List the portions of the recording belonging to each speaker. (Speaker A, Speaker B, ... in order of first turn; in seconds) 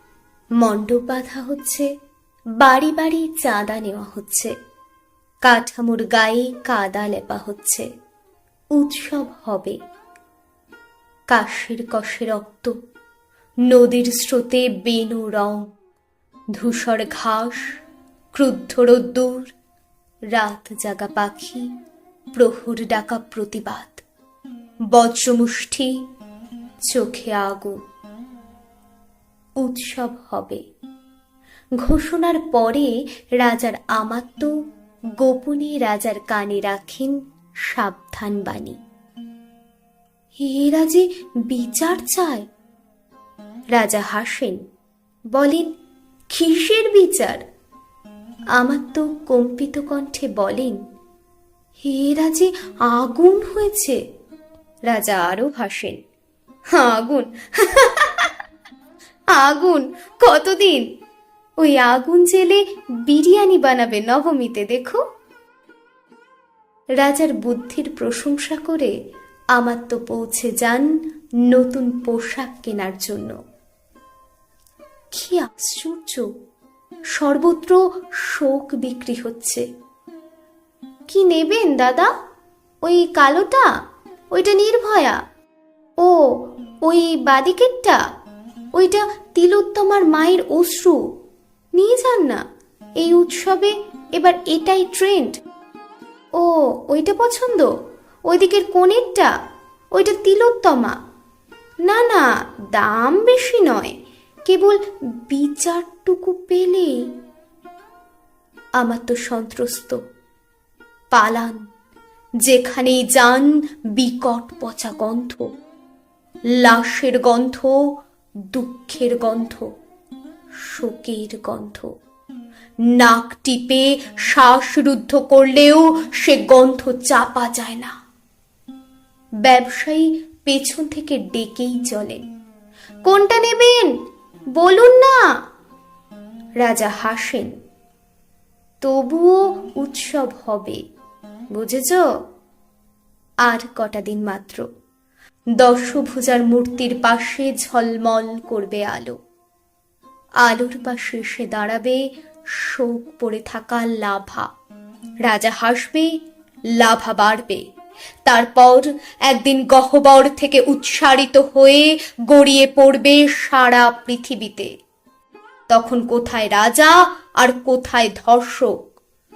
Speaker A: 0.6-1.9, 2.6-4.5, 5.4-7.9, 8.8-9.8, 11.3-12.7, 13.7-15.7, 16.6-17.7, 18.3-19.5, 20.3-21.7, 22.3-24.0, 24.9-25.9, 26.9-27.8, 29.6-30.6, 31.8-34.5, 35.2-38.8, 40.4-42.5, 43.7-44.6, 45.3-45.7, 46.3-47.4, 48.6-50.8, 51.9-54.0, 54.9-56.0, 56.7-58.3, 59.4-60.9, 61.6-65.0, 67.0-68.9, 69.5-70.9, 71.5-73.4, 75.1-76.3, 77.2-79.7, 81.1-82.1, 82.8-83.7, 84.3-85.2, 86.0-88.0, 88.8-91.0, 91.8-92.4, 93.0-95.4, 96.4-97.7, 98.3-99.3, 99.9-101.0, 101.9-104.0, 104.5-107.1, 108.8-110.0, 111.1-111.6, 112.5-115.5, 116.6-117.8, 118.5-119.7, 120.7-121.9, 123.0-127.9, 129.4-132.2, 133.1-133.9, 134.6-135.2, 136.6-137.5, 138.8-140.8, 141.5-142.0, 143.5-144.7, 145.6-149.2, 150.4-152.0, 152.6-154.5, 155.2-156.1, 156.8-157.6, 158.3-164.7, 165.7-168.7